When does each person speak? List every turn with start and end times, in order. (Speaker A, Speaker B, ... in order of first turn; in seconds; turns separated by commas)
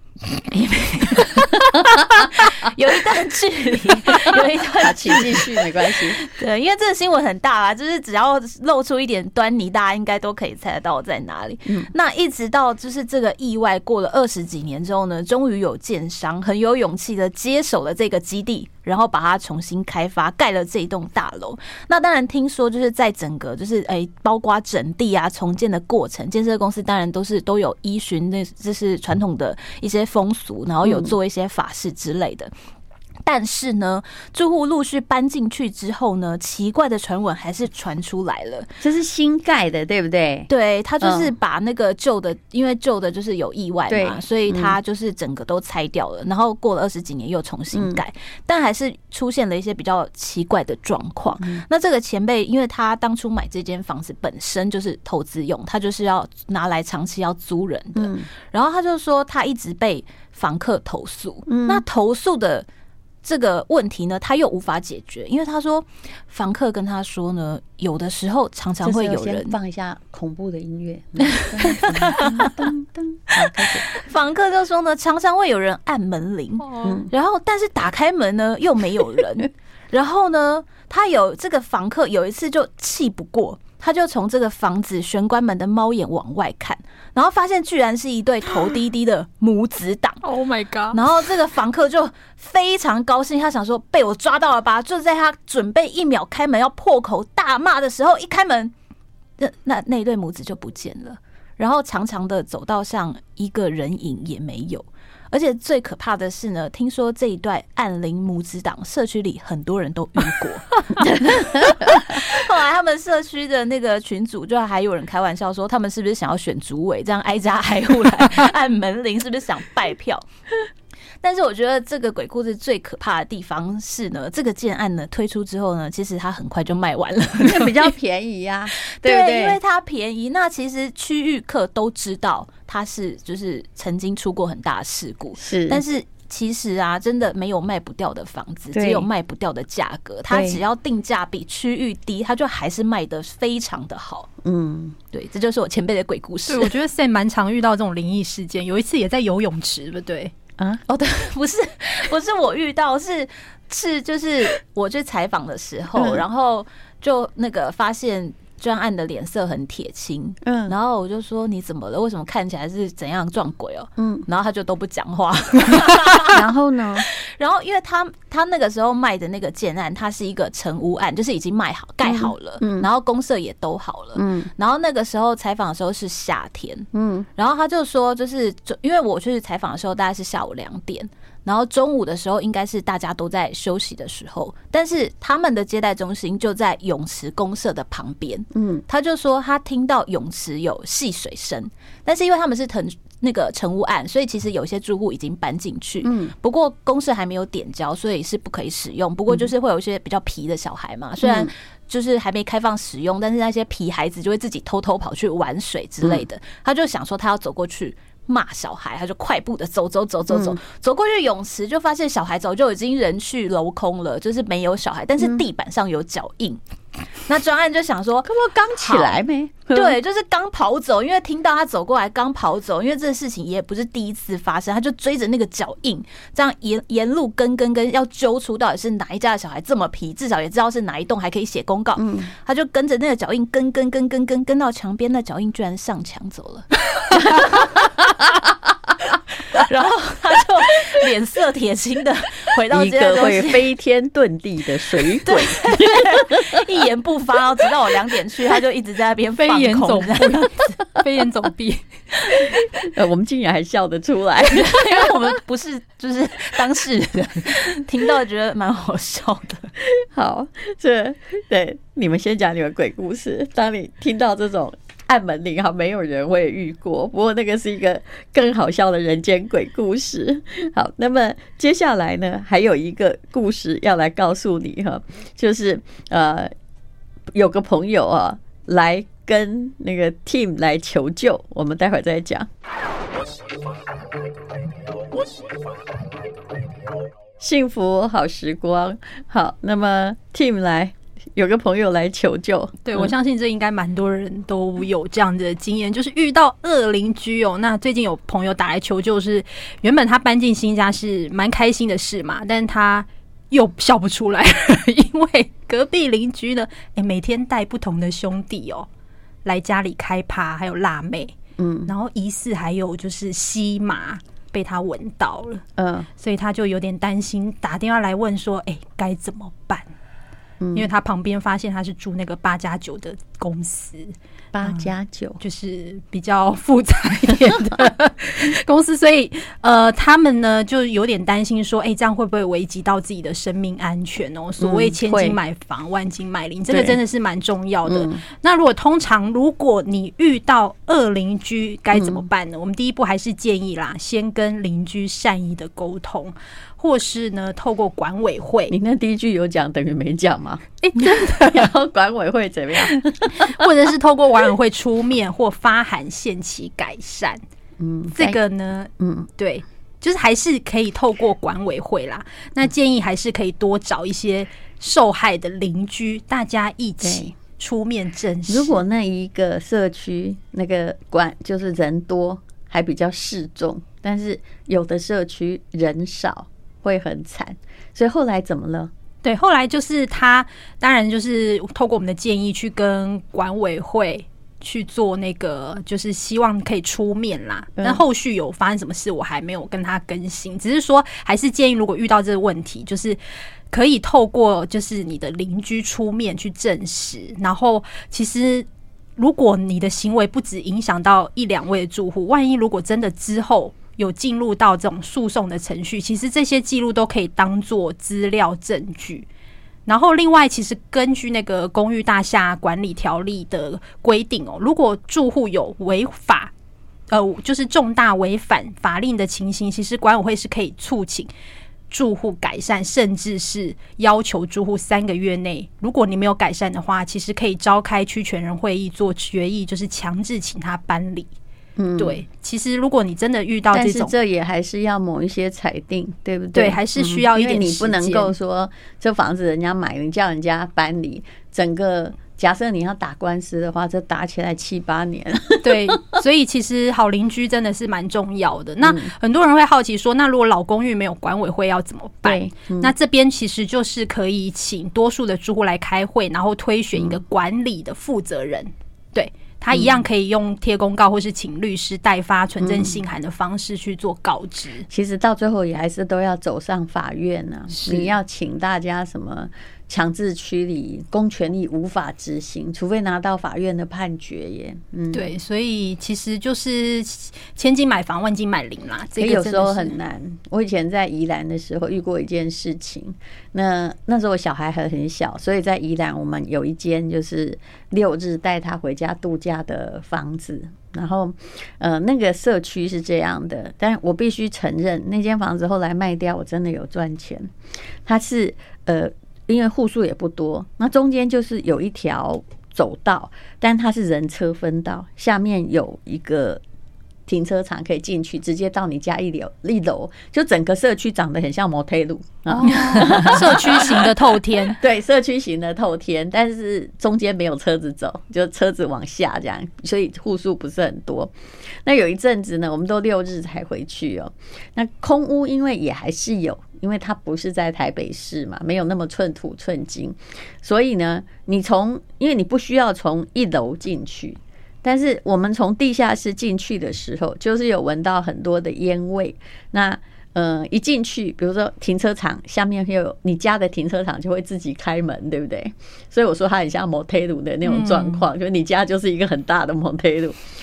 Speaker A: 0.3-5.6, Speaker B: 1.7-2.3, Speaker B: 4.1-6.2, Speaker A: 6.2-32.5, Speaker B: 30.8-31.1, Speaker A: 33.2-38.7, Speaker B: 38.8-40.5, Speaker A: 40.5-62.6, Speaker B: 41.0-41.3, Speaker B: 43.9-44.7, Speaker B: 47.7-48.0, Speaker B: 58.0-58.3, Speaker B: 61.5-61.8, Speaker A: 63.2-69.5, Speaker B: 68.8-73.9, Speaker A: 71.6-72.7, Speaker A: 73.9-90.2, Speaker C: 76.6-77.0, Speaker B: 76.8-77.1, Speaker C: 90.2-91.0, Speaker A: 90.9-98.7, Speaker A: 99.4-120.2, Speaker A: 121.2-127.9, Speaker B: 127.4-129.6, Speaker A: 129.0-144.3, Speaker B: 135.4-135.8, Speaker B: 138.7-139.1, Speaker B: 140.3-140.6, Speaker B: 144.4-145.0, Speaker A: 145.1-146.7, Speaker C: 146.5-150.3, Speaker A: 150.9-216.6, Speaker B: 155.9-156.2, Speaker B: 160.4-160.7, Speaker B: 164.0-164.2, Speaker B: 166.3-167.1, Speaker B: 172.0-172.9, Speaker B: 174.1-174.5, Speaker B: 176.9-177.3, Speaker B: 188.5-188.8, Speaker B: 196.0-196.3, Speaker B: 201.2-201.5, Speaker B: 210.3-210.6, Speaker A: 217.2-237.7, Speaker B: 218.2-220.0, Speaker B: 232.0-232.3, Speaker A: 239.4-243.6, Speaker B: 242.7-246.6, Speaker A: 245.2-250.7, Speaker C: 249.3-251.9, Speaker B: 252.8-254.7, Speaker A: 254.5-259.7, Speaker B: 259.9-276.5, Speaker B: 277.3-282.5, Speaker B: 287.4-293.1, Speaker C: 292.8-308.9, Speaker C: 309.4-311.4, Speaker B: 311.6-311.9, Speaker C: 311.9-315.6, Speaker B: 315.8-316.1, Speaker C: 316.2-319.9, Speaker B: 320.6-320.9, Speaker C: 320.7-348.8, Speaker B: 324.5-325.4, Speaker B: 334.6-335.4, Speaker B: 336.7-337.0, Speaker B: 337.9-338.2, Speaker B: 341.9-342.2, Speaker B: 348.7-353.7, Speaker C: 350.8-351.7, Speaker C: 353.3-357.4, Speaker B: 357.8-358.4, Speaker C: 358.1-368.8, Speaker B: 359.0-359.3, Speaker B: 367.0-367.3, Speaker B: 368.5-378.9, Speaker C: 379.2-393.2, Speaker C: 393.7-398.6, Speaker C: 399.2-409.2, Speaker C: 409.9-416.5, Speaker C: 417.1-421.3, Speaker C: 421.9-431.3, Speaker B: 431.8-432.2, Speaker C: 432.0-434.1, Speaker B: 433.7-446.1, Speaker C: 436.5-438.3, Speaker C: 445.6-464.9, Speaker B: 448.8-449.1, Speaker B: 452.2-452.9, Speaker B: 456.9-457.2, Speaker B: 459.7-460.0, Speaker B: 462.6-463.0, Speaker B: 464.9-475.3, Speaker C: 467.7-468.1, Speaker C: 475.1-479.9, Speaker B: 479.2-497.5, Speaker B: 498.0-506.6, Speaker B: 507.3-514.1, Speaker C: 512.6-514.8, Speaker B: 514.6-550.4, Speaker C: 547.6-548.2